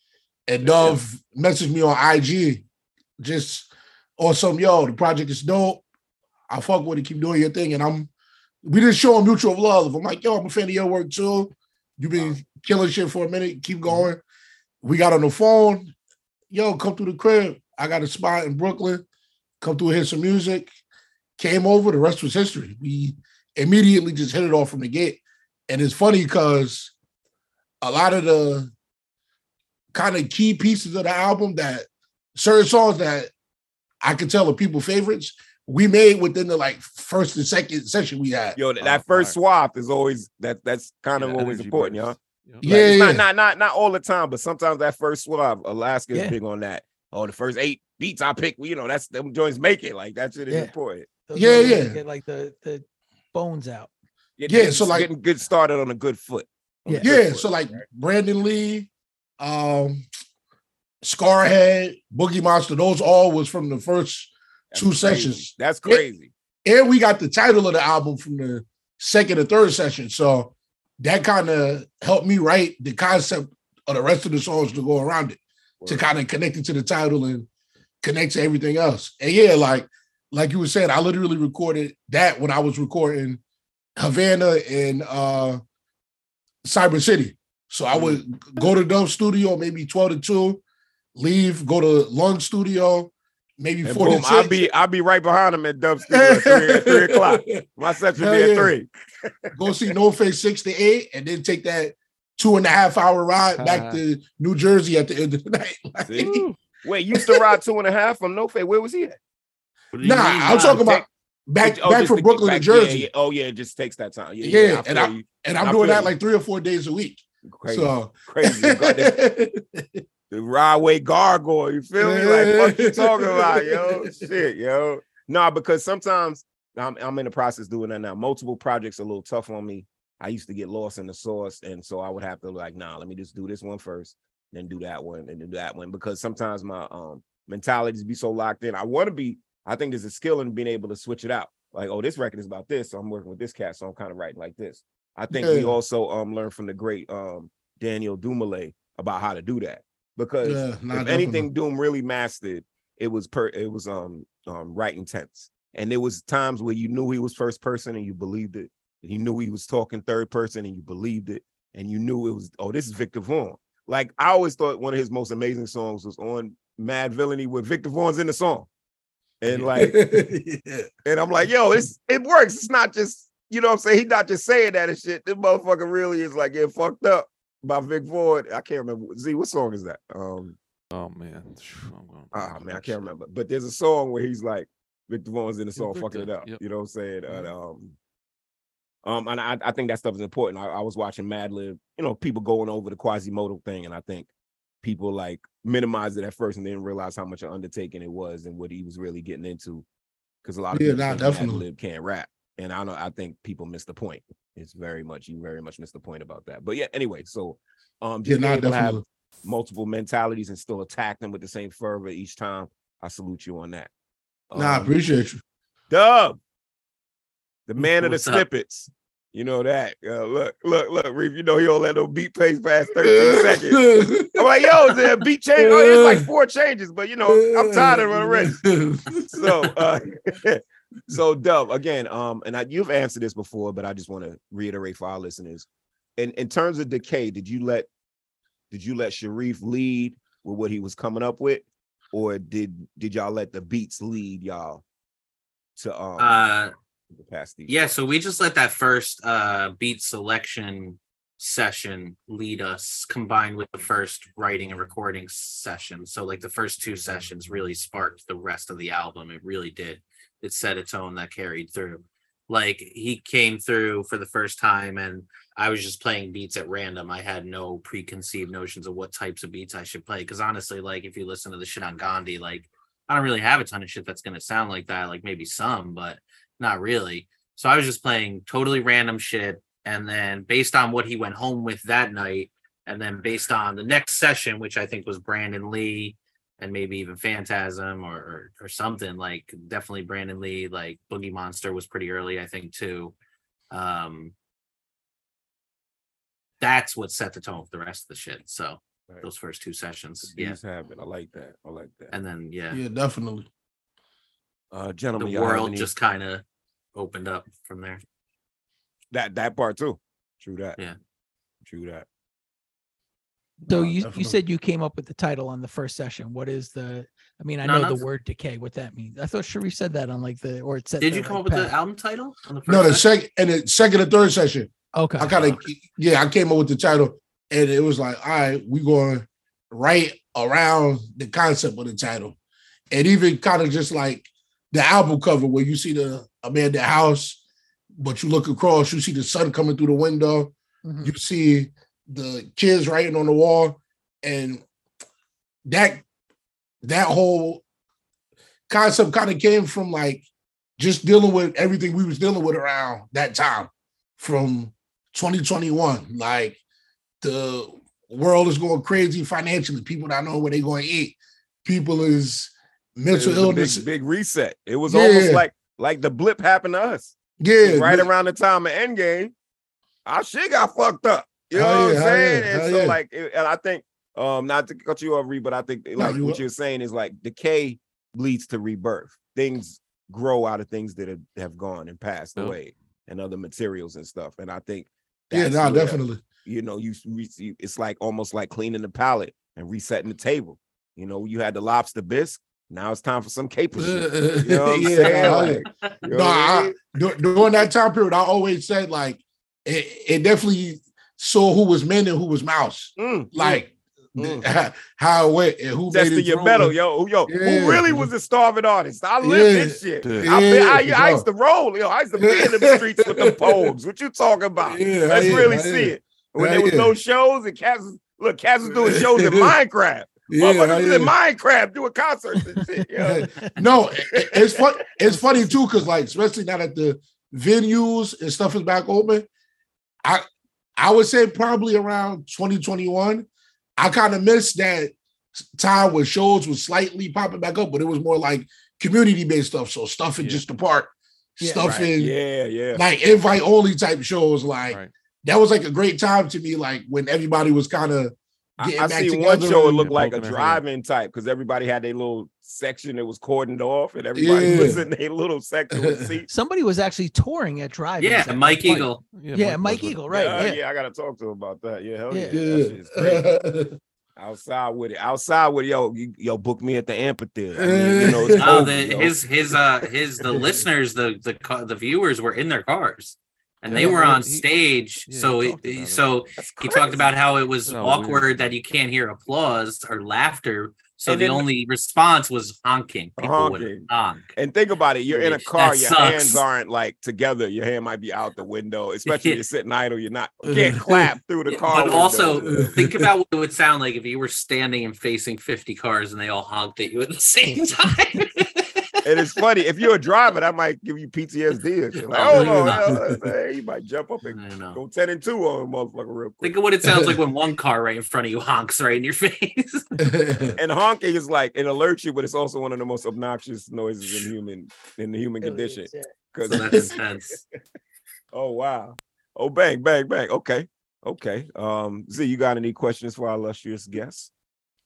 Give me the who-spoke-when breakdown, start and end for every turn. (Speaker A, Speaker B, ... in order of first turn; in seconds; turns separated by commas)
Speaker A: 0.5-2.6, Speaker B: 0.6-1.0, Speaker A: 3.2-5.8, Speaker A: 6.5-8.1, Speaker A: 8.6-14.2, Speaker A: 14.8-15.9, Speaker A: 16.5-19.0, Speaker A: 19.6-20.7, Speaker A: 21.4-26.9, Speaker A: 27.8-28.7, Speaker A: 29.9-33.3, Speaker A: 34.0-38.6, Speaker B: 38.6-51.7, Speaker C: 38.7-39.4, Speaker C: 41.2-42.9, Speaker A: 42.6-43.2, Speaker D: 51.3-53.9, Speaker A: 51.4-52.0, Speaker B: 54.4-57.8, Speaker A: 54.5-55.1, Speaker A: 57.0-60.0, Speaker A: 61.0-66.0, Speaker B: 64.7-66.3, Speaker A: 66.6-77.5, Speaker B: 75.8-76.1, Speaker A: 78.0-83.4, Speaker A: 84.0-85.6, Speaker A: 86.6-90.6, Speaker B: 87.9-88.2, Speaker A: 91.1-94.7, Speaker B: 93.8-99.5, Speaker A: 96.1-97.6, Speaker A: 98.2-98.7, Speaker A: 99.5-106.4, Speaker C: 103.6-104.0, Speaker B: 106.0-109.2, Speaker C: 106.2-106.6, Speaker A: 107.1-107.6, Speaker E: 109.9-110.8, Speaker A: 110.0-113.1, Speaker B: 110.7-111.0, Speaker B: 111.6-116.1, Speaker A: 114.4-120.0, Speaker B: 117.4-119.1, Speaker B: 120.3-168.7, Speaker A: 122.0-124.2, Speaker A: 145.3-145.8, Speaker A: 150.4-151.5, Speaker B: 169.4-170.0, Speaker A: 169.8-170.9, Speaker B: 171.1-180.6, Speaker C: 180.9-183.0, Speaker B: 182.3-187.9, Speaker C: 185.8-186.6, Speaker C: 187.3-187.5, Speaker B: 189.0-194.3, Speaker B: 194.8-199.8, Speaker B: 200.4-213.9, Speaker A: 200.7-201.6, Speaker A: 208.2-209.0, Speaker B: 214.5-214.9, Speaker A: 214.6-215.4, Speaker B: 215.9-216.4, Speaker B: 217.7-228.6, Speaker E: 218.0-218.4, Speaker A: 223.0-224.9, Speaker A: 225.6-226.3, Speaker A: 227.3-229.4, Speaker B: 229.3-237.9, Speaker B: 238.7-244.8, Speaker B: 245.8-246.4, Speaker E: 246.2-246.7, Speaker B: 247.1-247.8, Speaker E: 247.7-293.1, Speaker E: 293.7-294.3, Speaker E: 296.6-300.6, Speaker B: 300.3-302.1, Speaker E: 302.1-302.8, Speaker A: 302.7-303.5, Speaker B: 304.7-305.9, Speaker E: 305.2-306.4, Speaker E: 306.9-308.0, Speaker B: 309.1-310.8, Speaker B: 311.6-312.1, Speaker A: 313.7-314.4, Speaker D: 313.7-321.7, Speaker E: 317.6-318.0, Speaker E: 321.0-323.1, Speaker A: 322.7-332.4, Speaker D: 324.9-325.4, Speaker E: 325.4-325.6, Speaker A: 332.9-337.4, Speaker A: 338.0-344.6, Speaker D: 340.8-341.1, Speaker A: 345.6-346.0, Speaker A: 346.8-347.6, Speaker A: 348.7-350.3, Speaker A: 350.8-356.6, Speaker A: 357.2-363.9, Speaker B: 363.1-369.3, Speaker A: 364.9-365.4, Speaker A: 367.4-368.1, Speaker B: 370.1-396.8, Speaker A: 371.5-373.0, Speaker A: 376.0-376.4, Speaker A: 385.3-386.2, Speaker A: 393.8-408.1, Speaker E: 395.0-395.7, Speaker B: 403.0-403.6, Speaker B: 404.2-404.4, Speaker B: 405.9-423.3, Speaker A: 409.2-411.3, Speaker A: 412.2-413.7, Speaker A: 414.6-416.9, Speaker A: 418.7-419.6, Speaker A: 420.3-421.1, Speaker A: 423.0-429.3, Speaker B: 424.2-424.6, Speaker A: 430.8-442.1, Speaker D: 441.4-441.8, Speaker B: 441.6-442.9, Speaker A: 442.7-449.9, Speaker B: 448.6-456.3, Speaker C: 449.8-450.6, Speaker A: 454.1-454.8, Speaker A: 455.7-456.1, Speaker D: 456.3-458.8, Speaker E: 458.0-459.0, Speaker C: 458.6-460.4, Speaker D: 459.3-460.6, Speaker B: 460.1-463.3, Speaker D: 462.1-462.4, Speaker A: 462.3-463.8, Speaker B: 464.2-469.2, Speaker A: 467.6-468.7, Speaker E: 468.4-484.3, Speaker C: 473.6-474.4, Speaker C: 475.1-476.1, Speaker B: 476.4-477.1, Speaker C: 477.7-478.5, Speaker B: 481.1-481.4, Speaker B: 483.2-492.8, Speaker E: 485.1-486.4, Speaker E: 489.1-489.4, Speaker A: 490.5-491.1, Speaker E: 491.5-498.8, Speaker A: 492.4-493.1, Speaker B: 499.1-506.6, Speaker E: 502.1-503.0, Speaker A: 502.3-503.2, Speaker E: 504.3-504.8, Speaker E: 506.4-509.9, Speaker A: 506.8-507.2, Speaker A: 510.0-510.6, Speaker B: 510.6-517.0, Speaker D: 515.4-516.1, Speaker E: 516.5-517.4, Speaker A: 516.5-516.9, Speaker B: 518.3-524.3